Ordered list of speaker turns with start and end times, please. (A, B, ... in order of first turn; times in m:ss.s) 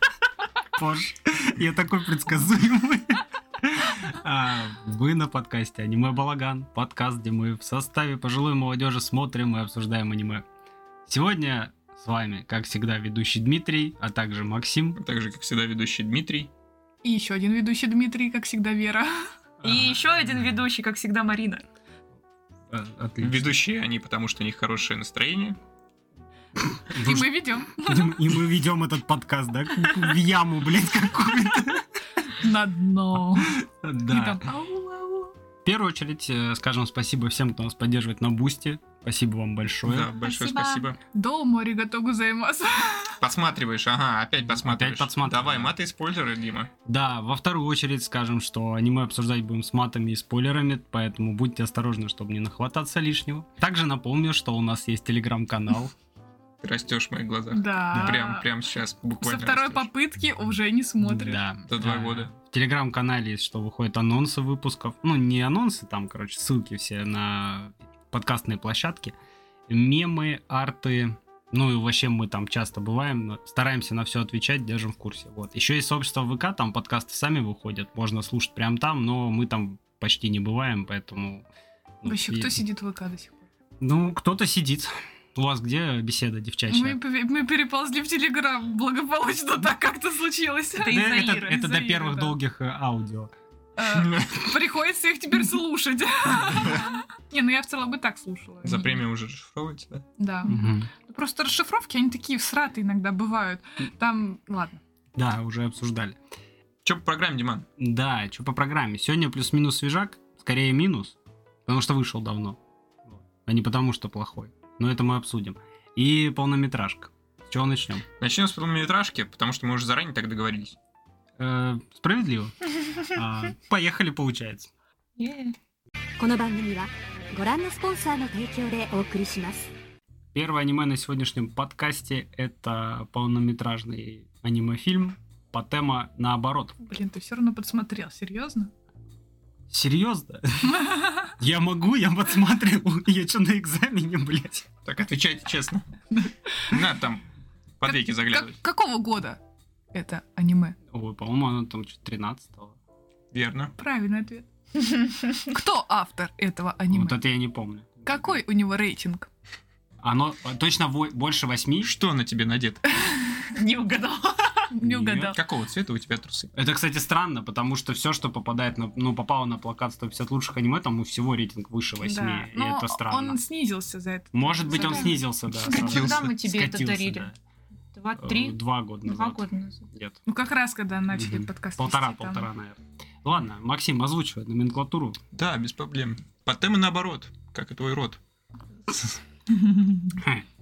0:00.7-0:10.4 A
0:11.1-0:15.0 A
0:15.0-0:16.5 B
0:17.0-0:19.2 C
0:19.6-0:20.0 A
0:19.6-0:21.6 D
0:22.7-0:23.5 A
0:23.2-0:25.6 B
0:26.8-0:31.8 A
0:27.0-0:28.4 C
0:32.4-0:33.5 C
0:33.4-0:34.4 A
0:34.1-0:35.3 C
0:35.6-0:40.1 A
0:39.8-0:41.0 B
0:40.2-0:43.2 C
0:43.2-0:46.7 B
0:44.5-0:45.7 A
0:46.9-0:55.9 A
0:56.6-0:59.9 B
0:57.5-0:58.5 C
0:59.2-1:01.4 C
1:01.0-1:09.2 A
1:01.7-1:02.3 B
1:09.7-1:21.5 A
1:22.0-1:22.6 A
1:22.1-1:23.4 C
1:23.8-1:27.0 A
1:26.7-1:32.4 C
1:30.8-1:31.6 D
1:30.8-1:33.3 A
1:33.8-1:39.0 C
1:33.9-1:34.5 B
1:36.5-1:36.8 B
1:38.6-1:40.1 B
1:40.2-1:44.8 C
1:40.5-1:40.9 A
1:45.2-1:46.2 A
1:46.8-1:47.7 B
1:47.8-1:58.1 A
1:58.2-2:00.8 B
2:01.4-2:04.7 A
2:05.2-2:05.6 D
2:06.2-2:09.7 E
2:10.3-2:16.8 A
2:16.8-2:18.7 C
2:19.7-2:24.6 A
2:20.6-2:21.3 C
2:24.8-2:25.9 B
2:26.1-2:26.8 C
2:26.7-2:27.2 B
2:27.8-2:28.6 B
2:27.8-2:29.4 C
2:29.9-2:30.8 C
2:30.9-2:32.8 A
2:33.3-2:33.7 B
2:33.8-2:37.2 C
2:36.9-2:38.3 A
2:38.1-2:39.3 C
2:40.0-2:41.9 A
2:41.8-2:42.8 B
2:43.5-2:44.7 D
2:44.7-2:45.4 C
2:44.8-2:45.4 A
2:45.4-2:46.5 B
2:46.5-2:53.4 A
2:52.0-2:55.2 C
2:54.3-2:57.4 A
2:55.7-2:56.3 B
2:55.7-2:57.3 D
2:57.9-2:59.9 D
2:58.2-3:00.2 A
3:00.3-3:02.5 C
3:01.1-3:05.2 A
3:05.3-3:08.2 B
3:08.9-3:09.2 B
3:10.1-3:10.5 A